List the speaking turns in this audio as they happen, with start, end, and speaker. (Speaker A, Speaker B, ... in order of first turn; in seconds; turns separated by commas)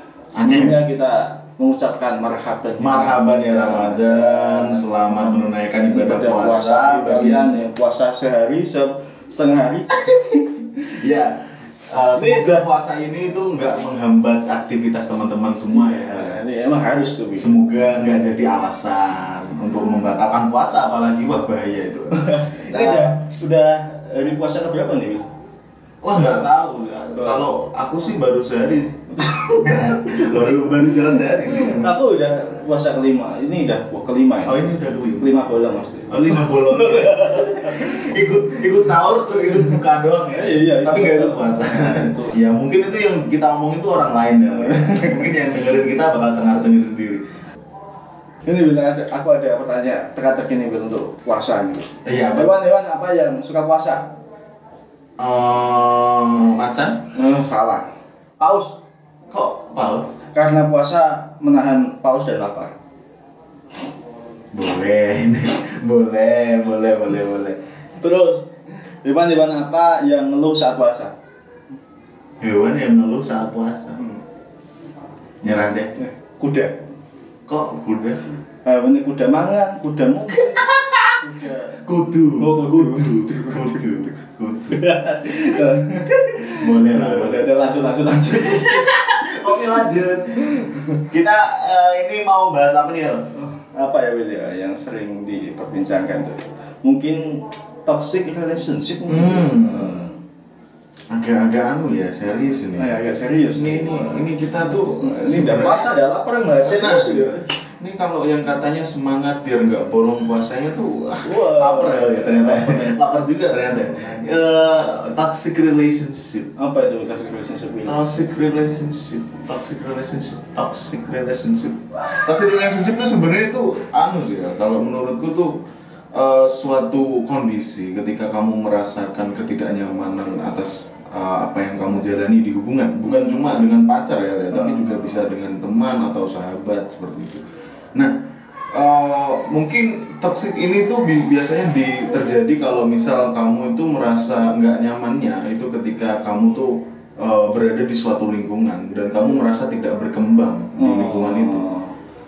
Speaker A: 0.3-10.6, Speaker B: 0.3-0.8, Speaker B: 2.8-7.6, Speaker B: 10.9-16.4, Speaker A: 12.1-12.6, Speaker A: 15.7-17.6, Speaker B: 17.3-23.2, Speaker A: 22.2-25.2, Speaker B: 26.0-31.9, Speaker A: 27.1-27.5, Speaker A: 29.2-34.6, Speaker B: 34.4-35.4, Speaker A: 35.2-38.1, Speaker B: 36.1-47.2, Speaker A: 39.3-39.8, Speaker A: 40.3-42.4, Speaker A: 44.6-45.3, Speaker A: 48.5-54.1, Speaker B: 52.0-52.5, Speaker B: 55.2-57.0, Speaker A: 57.1-57.9, Speaker A: 58.4-58.8, Speaker B: 59.3-60.2, Speaker A: 60.3-62.7, Speaker B: 64.5-67.6, Speaker A: 68.0-71.1, Speaker B: 72.4-74.0, Speaker B: 75.4-75.9, Speaker A: 76.0-76.8, Speaker B: 77.5-78.3, Speaker A: 78.6-81.8, Speaker B: 80.3-81.2, Speaker B: 81.8-84.9, Speaker A: 82.4-84.1, Speaker A: 84.7-89.9, Speaker B: 86.5-87.5, Speaker B: 88.5-93.3, Speaker A: 90.4-91.0, Speaker A: 93.5-100.1, Speaker B: 99.1-100.1, Speaker B: 101.1-103.0, Speaker A: 102.7-104.2, Speaker B: 103.5-106.0, Speaker A: 105.0-107.4, Speaker B: 106.6-116.5, Speaker A: 111.2-113.1, Speaker A: 113.7-114.3, Speaker A: 116.6-118.1, Speaker B: 117.8-125.6, Speaker B: 126.1-137.4, Speaker A: 133.1-133.6, Speaker A: 134.5-135.3, Speaker B: 138.7-151.7, Speaker A: 150.8-151.9